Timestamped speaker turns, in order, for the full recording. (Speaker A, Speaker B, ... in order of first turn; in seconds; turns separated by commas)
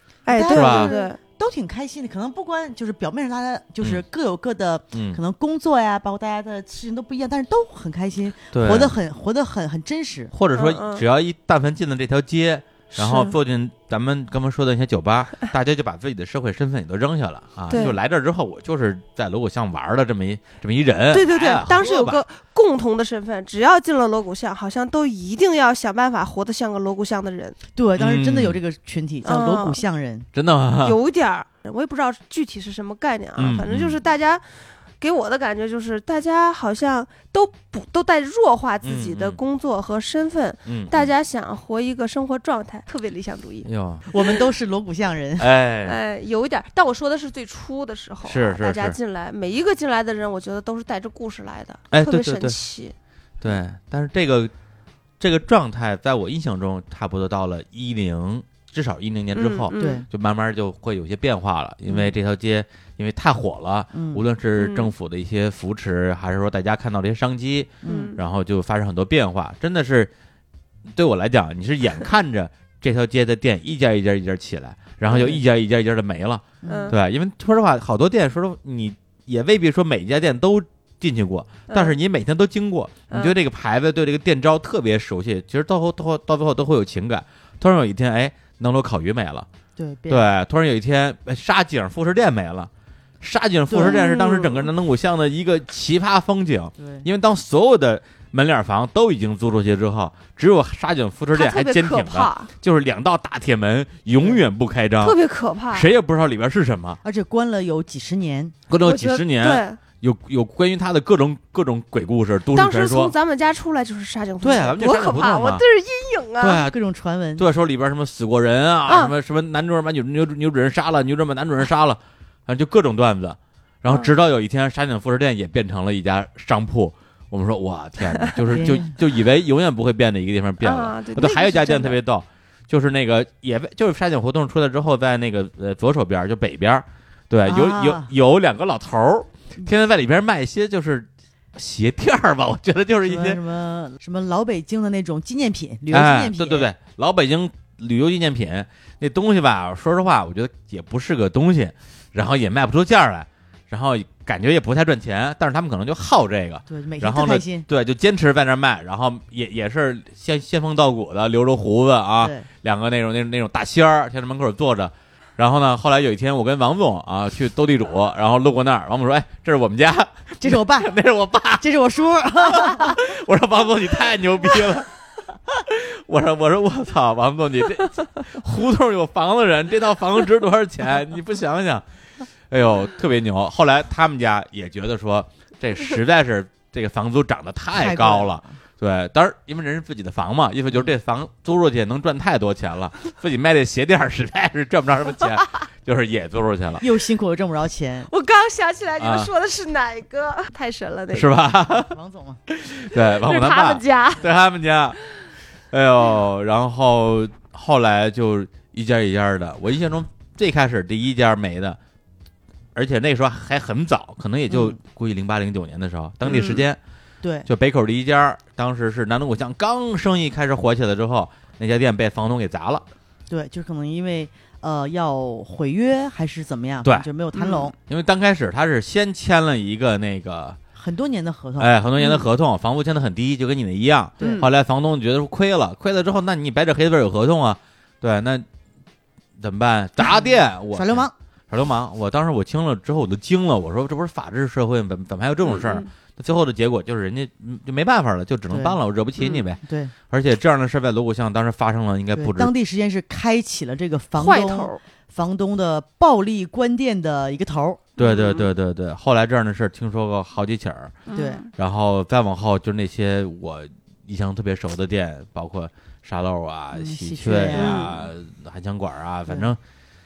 Speaker A: 0.3-1.2, Speaker B: 0.3-10.3, Speaker C: 0.5-0.9, Speaker C: 4.9-5.2, Speaker C: 8.5-8.9, Speaker C: 10.3-22.2, Speaker A: 10.5-11.0, Speaker A: 13.0-13.3, Speaker A: 17.7-17.9, Speaker A: 21.1-27.6, Speaker B: 27.8-30.3, Speaker C: 28.0-28.6, Speaker A: 29.2-29.8, Speaker C: 30.3-31.0, Speaker A: 30.8-43.7, Speaker C: 33.4-34.0, Speaker C: 38.8-39.4, Speaker C: 40.7-41.1, Speaker C: 43.6-44.0, Speaker B: 44.1-45.5, Speaker C: 45.4-46.0, Speaker A: 45.9-53.0, Speaker C: 48.2-49.0, Speaker C: 51.9-52.6, Speaker C: 53.4-54.5, Speaker C: 55.2-70.1, Speaker A: 59.4-60.0, Speaker B: 59.8-60.1, Speaker B: 61.9-62.1, Speaker B: 63.9-64.2, Speaker A: 64.6-64.9, Speaker B: 67.8-68.1, Speaker A: 67.8-68.2, Speaker C: 70.9-89.5, Speaker B: 75.1-75.4, Speaker B: 76.6-77.0, Speaker A: 76.7-77.0, Speaker A: 81.7-81.9, Speaker B: 89.8-90.3, Speaker C: 90.1-92.7, Speaker C: 93.2-105.2, Speaker B: 93.7-94.0, Speaker A: 93.8-94.7, Speaker B: 96.8-97.1, Speaker A: 101.3-102.5, Speaker A: 105.0-105.9, Speaker C: 105.7-107.0, Speaker B: 107.0-108.5, Speaker C: 108.7-113.1, Speaker A: 108.8-109.8, Speaker A: 112.5-116.7, Speaker C: 114.4-115.6, Speaker C: 116.4-116.8, Speaker B: 116.7-117.5, Speaker C: 117.4-143.4, Speaker A: 118.9-119.1, Speaker A: 123.9-124.1, Speaker B: 128.5-128.9, Speaker A: 130.6-132.0, Speaker B: 137.4-138.1, Speaker B: 143.0-146.7, Speaker C: 145.9-171.7, Speaker B: 156.7-157.7, Speaker B: 162.2-162.5, Speaker B: 170.4-170.9, Speaker B: 171.6-173.0, Speaker C: 172.3-174.9, Speaker C: 175.6-181.8, Speaker C: 182.5-196.8, Speaker B: 187.7-188.4, Speaker B: 196.8-198.1, Speaker A: 198.1-201.3, Speaker C: 199.0-199.3, Speaker C: 201.1-201.9, Speaker B: 201.9-202.4, Speaker C: 202.5-205.0, Speaker A: 203.0-204.2, Speaker C: 205.7-211.8, Speaker C: 212.8-216.8, Speaker B: 214.5-214.8, Speaker A: 216.3-216.6, Speaker B: 216.3-216.6, Speaker B: 217.2-217.5, Speaker C: 217.5-222.8, Speaker B: 223.3-227.8, Speaker A: 227.3-227.7, Speaker C: 227.9-230.6, Speaker B: 230.8-231.7, Speaker C: 231.6-238.5, Speaker B: 234.2-234.4, Speaker A: 234.2-234.5, Speaker C: 239.4-252.5, Speaker B: 240.0-241.1, Speaker A: 245.5-245.8, Speaker B: 248.5-248.8, Speaker B: 249.6-249.9, Speaker B: 252.2-257.9, Speaker A: 254.2-254.8, Speaker A: 258.0-258.5, Speaker C: 258.0-261.0, Speaker A: 261.1-261.5, Speaker B: 261.1-261.5, Speaker C: 261.6-269.6, Speaker B: 266.7-268.0, Speaker A: 267.6-267.9, Speaker B: 269.3-269.5